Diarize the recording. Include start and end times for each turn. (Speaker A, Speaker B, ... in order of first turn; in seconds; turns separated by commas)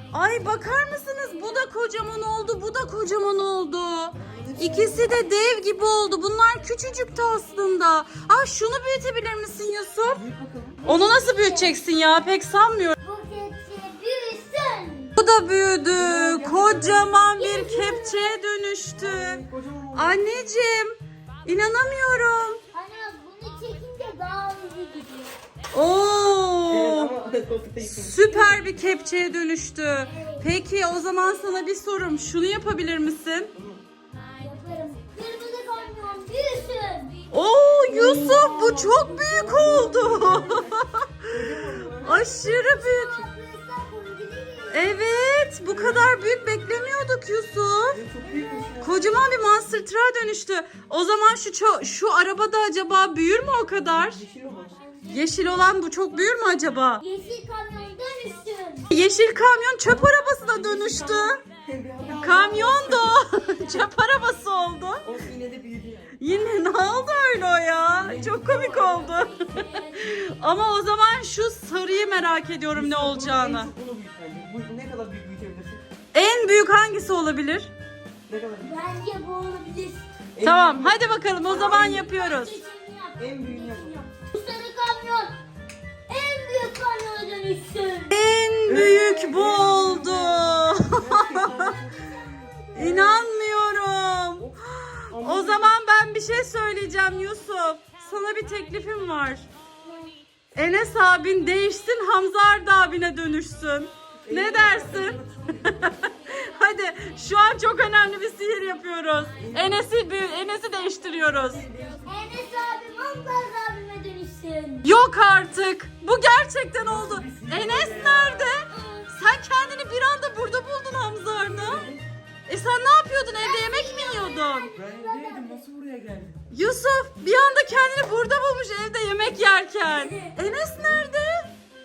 Speaker A: 0.1-10.2, Speaker B: 4.2-5.2, Speaker B: 10.2-10.9, Speaker C: 10.8-11.8, Speaker A: 10.8-13.0, Speaker C: 13.0-15.1, Speaker A: 15.2-19.4, Speaker B: 15.9-17.1, Speaker C: 17.4-18.4, Speaker B: 18.9-20.3, Speaker A: 20.0-20.9, Speaker A: 21.4-22.6, Speaker C: 22.7-25.3, Speaker A: 25.7-27.1, Speaker B: 26.7-28.6, Speaker A: 27.8-33.5, Speaker C: 30.0-30.5, Speaker C: 31.2-31.7, Speaker B: 33.5-33.8, Speaker C: 34.3-37.2, Speaker A: 37.3-43.3, Speaker B: 37.9-40.7, Speaker B: 41.3-42.2, Speaker C: 42.1-45.0, Speaker A: 44.7-48.0, Speaker B: 45.7-46.1, Speaker B: 47.9-49.2, Speaker C: 48.2-49.4, Speaker A: 48.8-54.2, Speaker B: 53.9-54.9, Speaker A: 55.0-57.0, Speaker C: 57.0-58.9, Speaker A: 58.9-61.4, Speaker B: 60.6-63.2, Speaker C: 62.0-63.9, Speaker A: 62.2-65.1, Speaker B: 65.0-66.2, Speaker A: 66.2-73.7, Speaker B: 67.9-69.1, Speaker C: 68.7-70.1, Speaker B: 72.7-75.8, Speaker A: 76.1-77.7, Speaker B: 78.3-78.8, Speaker C: 78.6-80.1, Speaker B: 80.3-82.1, Speaker A: 80.4-82.6, Speaker C: 81.5-85.4, Speaker B: 83.2-84.0, Speaker C: 86.1-88.2, Speaker A: 88.1-91.8, Speaker B: 88.7-93.2, Speaker A: 92.7-99.5, Speaker C: 92.8-93.0, Speaker B: 95.1-95.7, Speaker C: 99.9-100.1, Speaker A: 100.5-111.6, Speaker B: 104.2-105.9, Speaker B: 109.4-109.9, Speaker B: 111.2-112.2, Speaker C: 112.0-114.9, Speaker A: 114.8-121.9, Speaker B: 116.8-118.5, Speaker C: 118.6-119.2, Speaker B: 121.6-122.0, Speaker A: 122.5-124.7, Speaker C: 123.3-125.7, Speaker B: 124.7-126.4, Speaker A: 126.5-131.5, Speaker C: 129.8-130.4